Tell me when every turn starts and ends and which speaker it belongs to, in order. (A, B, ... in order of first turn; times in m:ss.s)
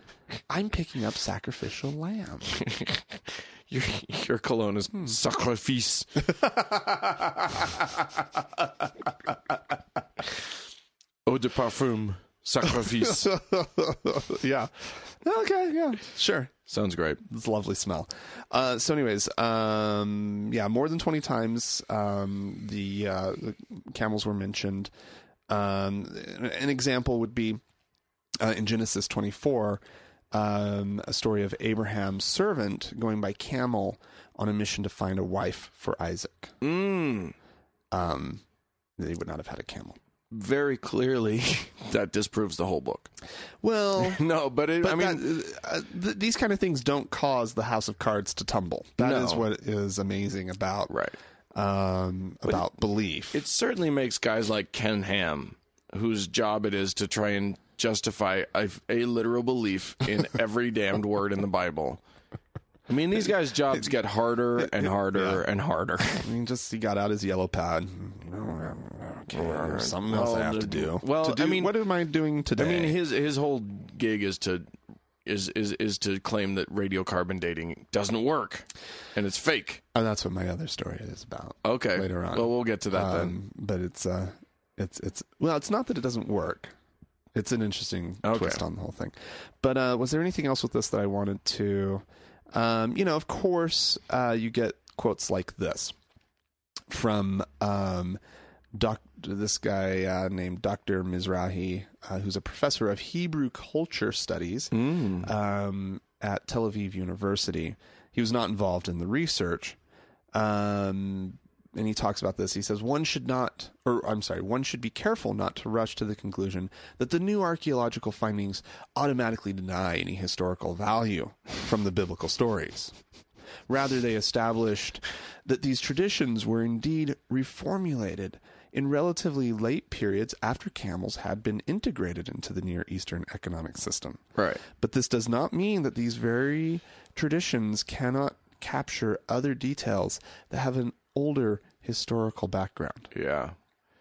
0:00.5-0:02.5 A
0:02.5-0:06.2 B
0:06.3-0:07.8 A
0:11.2-0:13.3 B
0:12.7-0:16.5 A
0:16.7-0:17.2 B
0:17.2-0:24.9 A
0:25.5-0:27.6 A
0:28.4-0:29.8 A
0:30.3-0:36.6 A
0:36.6-0:37.3 B
0:37.9-0:38.4 A
0:39.0-0:40.0 A
0:40.3-0:43.1 B
0:43.6-0:44.2 A
0:44.0-0:45.3 B
0:44.8-0:50.9 A
0:49.0-0:49.4 B
0:50.9-0:51.2 B
0:51.5-0:53.4 A
0:53.3-1:02.0 B
1:02.9-1:06.3 B
1:04.6-1:05.4 A
1:06.2-1:13.0 A
1:09.3-1:11.8 B
1:12.5-1:14.7 B
1:15.2-1:19.8 B
1:19.9-1:26.7 A
1:21.6-1:23.3 B
1:27.3-1:35.9 A
1:28.2-1:28.6 B
1:36.9-1:38.2 A
1:38.7-1:49.8 A
1:44.7-1:45.3 B
1:50.3-2:02.9 A
2:03.7-2:14.2 A
2:14.4-2:14.6 B
2:14.7-2:23.1 A
2:23.1-2:23.6 B